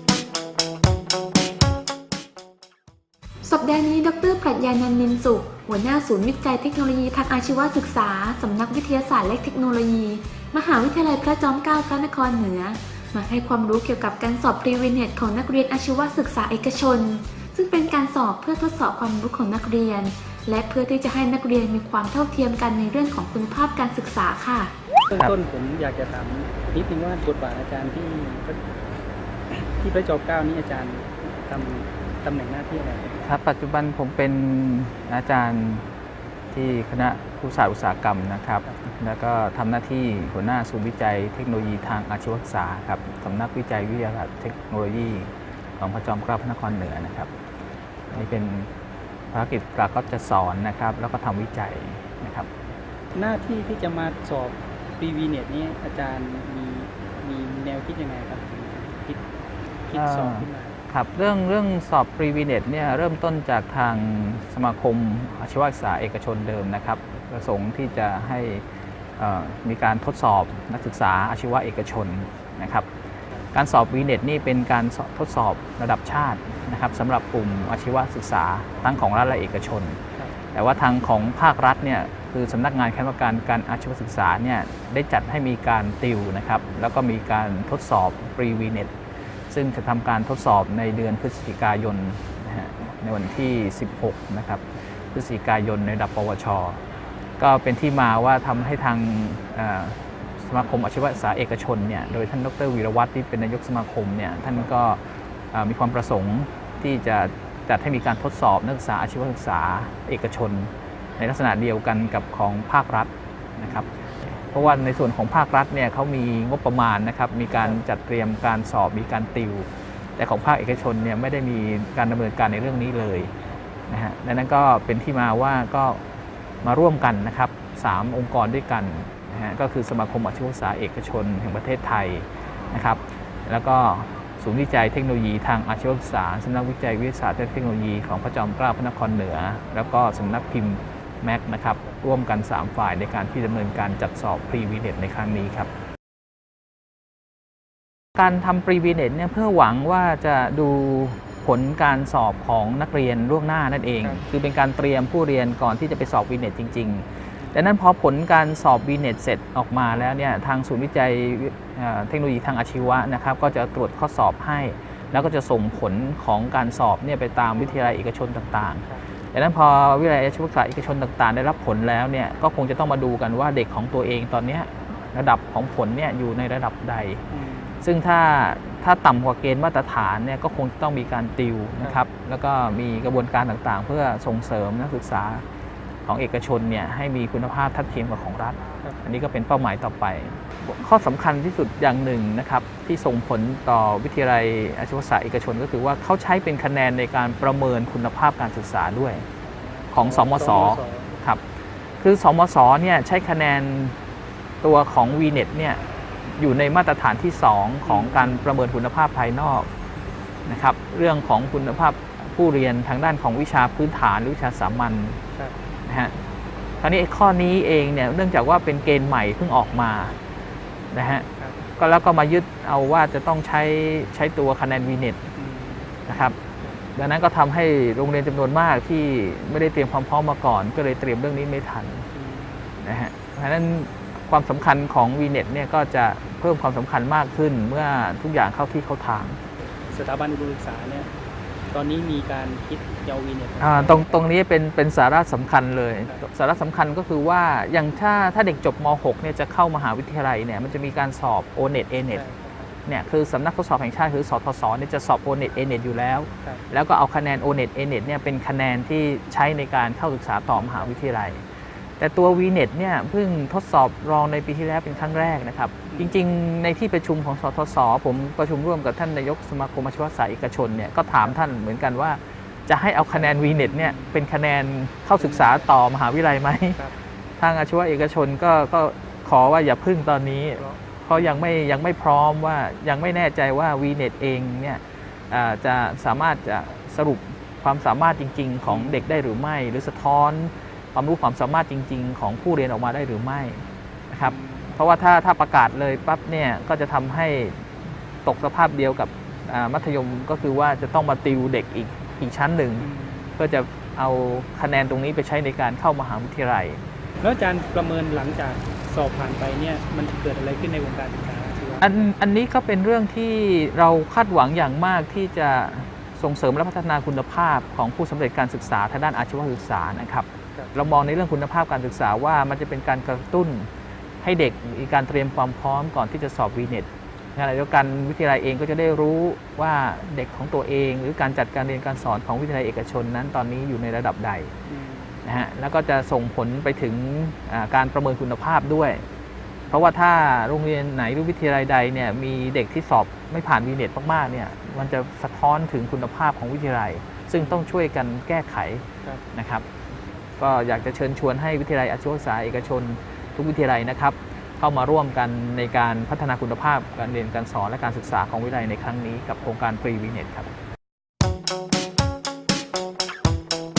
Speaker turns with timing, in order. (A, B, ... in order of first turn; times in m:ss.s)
0:03.4-0:24.7 A
0:25.1-0:28.6 B
0:29.5-0:33.2 B
0:33.2-0:35.8 C
0:36.5-0:47.3 C
0:48.1-0:48.7 C
0:49.3-0:52.5 C
0:53.1-0:59.2 B
0:59.9-1:00.8 B
0:59.9-1:08.6 C
1:09.2-1:12.9 C
1:13.5-1:20.0 C
1:20.5-1:28.9 C
1:29.5-1:36.8 C
1:37.4-1:45.0 C
1:45.5-2:03.3 C
2:03.9-2:06.0 C
2:06.6-2:25.7 C
2:28.2-2:57.2 C
2:57.3-2:57.8 B
2:57.8-3:05.4 C
3:06.1-3:19.3 C
3:19.4-3:21.2 B
3:19.9-3:21.4 C
3:22.0-3:24.0 C
3:24.6-3:25.8 C
3:26.4-3:29.7 C
3:27.9-3:28.5 B
3:30.5-3:35.2 C
3:35.9-3:36.2 C
3:36.8-3:40.2 C
3:40.9-3:45.2 C
3:41.3-3:41.6 B
3:45.4-3:46.0 B
3:46.1-3:46.4 C
3:47.0-3:52.1 C
3:52.1-3:52.7 B
3:52.8-3:59.4 C
3:59.9-4:01.1 B
4:01.7-4:04.2 B
4:03.6-4:12.2 C
4:12.1-4:12.7 B
4:12.8-4:21.4 C
4:22.0-4:36.8 C
4:25.9-4:26.2 B
4:33.1-4:34.1 B
4:35.1-4:35.6 B
4:37.4-5:02.9 C
4:40.6-4:41.5 B
4:48.6-4:49.0 B
4:54.2-4:54.7 B
5:02.8-5:03.4 B
5:03.4-5:06.8 C
5:07.2-5:11.9 B
5:11.8-5:23.7 C
5:24.2-5:34.5 C
5:34.7-5:35.2 B
5:35.2-5:39.0 C
5:39.7-5:49.6 C
5:50.4-6:00.5 C